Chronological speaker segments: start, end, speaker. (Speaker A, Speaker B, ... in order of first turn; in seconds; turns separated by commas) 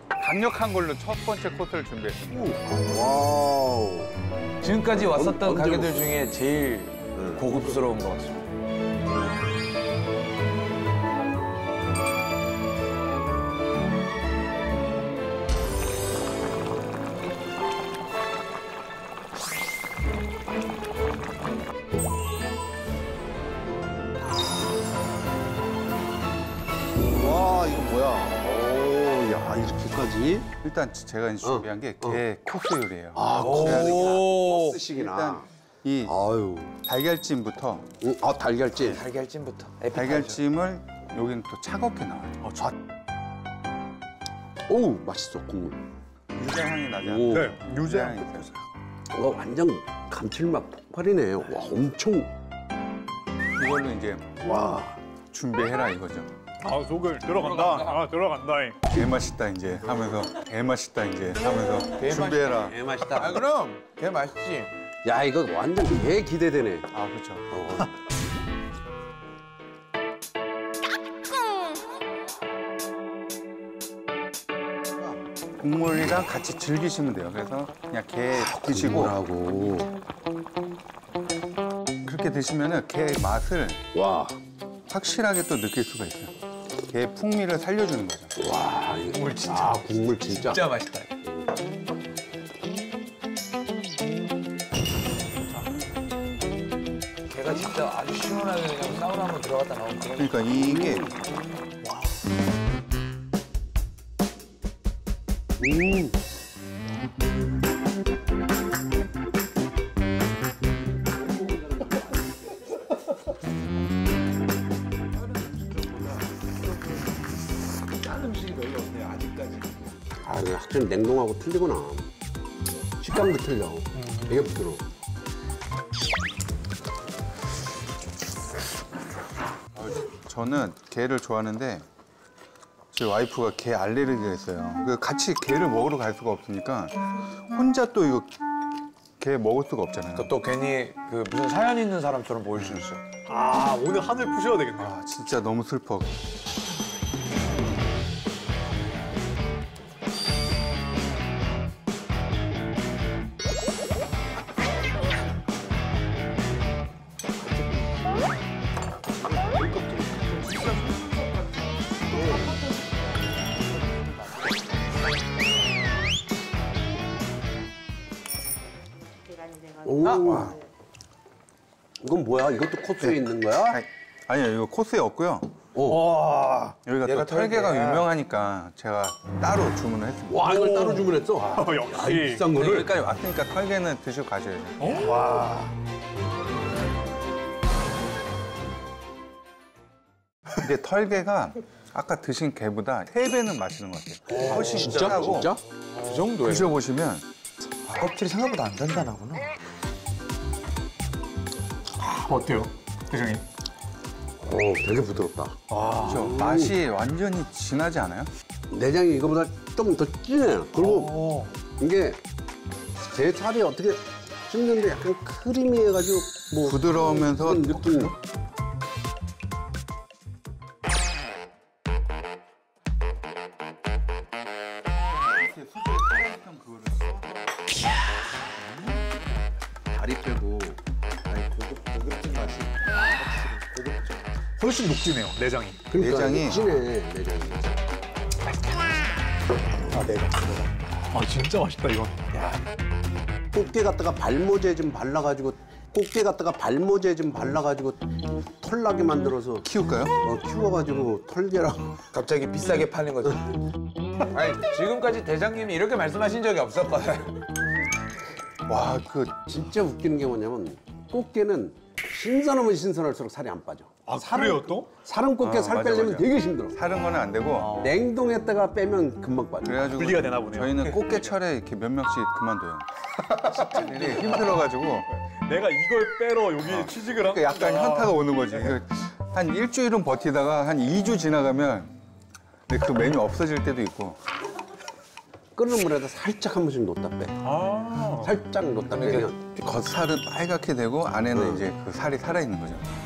Speaker A: 0.2-2.5, Speaker B: 2.3-4.1, Speaker C: 4.6-8.4, Speaker B: 4.9-6.2, Speaker B: 7.1-7.4, Speaker B: 27.1-30.5, Speaker A: 30.6-34.2, Speaker B: 31.4-32.2, Speaker B: 33.1-35.5, Speaker C: 33.4-34.8, Speaker A: 34.9-36.2, Speaker B: 36.0-36.7, Speaker A: 36.8-37.9, Speaker B: 38.0-39.0, Speaker C: 38.8-40.4, Speaker A: 39.9-42.5, Speaker D: 42.4-42.7, Speaker B: 44.7-45.8, Speaker A: 46.3-48.5, Speaker B: 47.0-47.5, Speaker D: 47.3-48.2, Speaker B: 49.1-52.3, Speaker A: 53.5-54.3, Speaker B: 54.4-55.0, Speaker A: 55.3-56.3, Speaker D: 56.6-58.9, Speaker C: 57.4-58.0, Speaker A: 58.8-62.8, Speaker C: 61.9-64.7, Speaker B: 62.6-63.5, Speaker B: 65.0-66.9, Speaker A: 66.9-67.5, Speaker B: 67.5-67.9, Speaker A: 75.6-79.1, Speaker B: 78.3-79.9, Speaker A: 82.0-83.8, Speaker B: 83.9-84.4, Speaker A: 84.9-86.3, Speaker A: 86.9-88.3, Speaker B: 88.4-90.6, Speaker C: 89.0-91.1, Speaker C: 97.3-100.4, Speaker A: 100.2-101.1, Speaker B: 100.5-101.1, Speaker B: 105.6-106.1, Speaker C: 115.5-116.2, Speaker C: 118.0-119.7, Speaker B: 120.2-122.1, Speaker B: 123.0-124.9, Speaker D: 124.0-124.3, Speaker A: 129.7-131.8, Speaker A: 132.9-138.3, Speaker A: 139.2-140.3, Speaker C: 140.1-143.0, Speaker D: 143.2-144.9, Speaker A: 144.8-146.1, Speaker B: 159.2-160.8, Speaker D: 160.9-161.2, Speaker B: 162.1-162.6, Speaker B: 169.8-170.6, Speaker C: 170.0-170.6, Speaker B: 172.0-173.8, Speaker A: 173.0-175.5, Speaker B: 175.7-176.1, Speaker C: 175.9-178.1, Speaker A: 176.8-180.5, Speaker B: 180.2-182.9, Speaker D: 180.5-182.6, Speaker A: 182.5-185.0, Speaker D: 184.8-185.2, Speaker B: 185.0-185.7, Speaker A: 190.6-195.5, Speaker C: 194.3-195.4, Speaker B: 194.3-195.6, Speaker C: 195.9-196.7, Speaker A: 196.4-197.2, Speaker C: 197.8-199.5, Speaker D: 202.0-203.4, Speaker B: 204.4-206.8, Speaker D: 205.7-206.1, Speaker A: 206.0-208.3, Speaker B: 208.7-212.2, Speaker D: 210.8-211.5, Speaker B: 213.0-218.1, Speaker A: 216.6-218.2, Speaker A: 225.2-227.6, Speaker A: 228.7-229.0, Speaker B: 229.9-234.2, Speaker D: 232.9-233.2, Speaker D: 234.6-235.8, Speaker B: 235.9-237.8, Speaker A: 235.9-236.7, Speaker D: 239.9-242.3, Speaker B: 243.5-252.0, Speaker A: 249.6-250.2, Speaker C: 252.1-253.6, Speaker C: 254.3-257.4, Speaker A: 258.7-259.4, Speaker B: 259.4-266.8, Speaker D: 264.1-264.9, Speaker A: 265.4-267.8, Speaker B: 267.7-269.9, Speaker A: 269.6-275.1, Speaker D: 269.9-271.2, Speaker D: 273.5-274.5, Speaker D: 275.2-278.7, Speaker A: 276.6-281.9, Speaker A: 282.7-284.2, Speaker B: 285.6-287.4, Speaker D: 287.4-288.3, Speaker B: 288.2-289.4, Speaker C: 288.9-289.4, Speaker A: 289.6-292.9, Speaker B: 291.3-291.6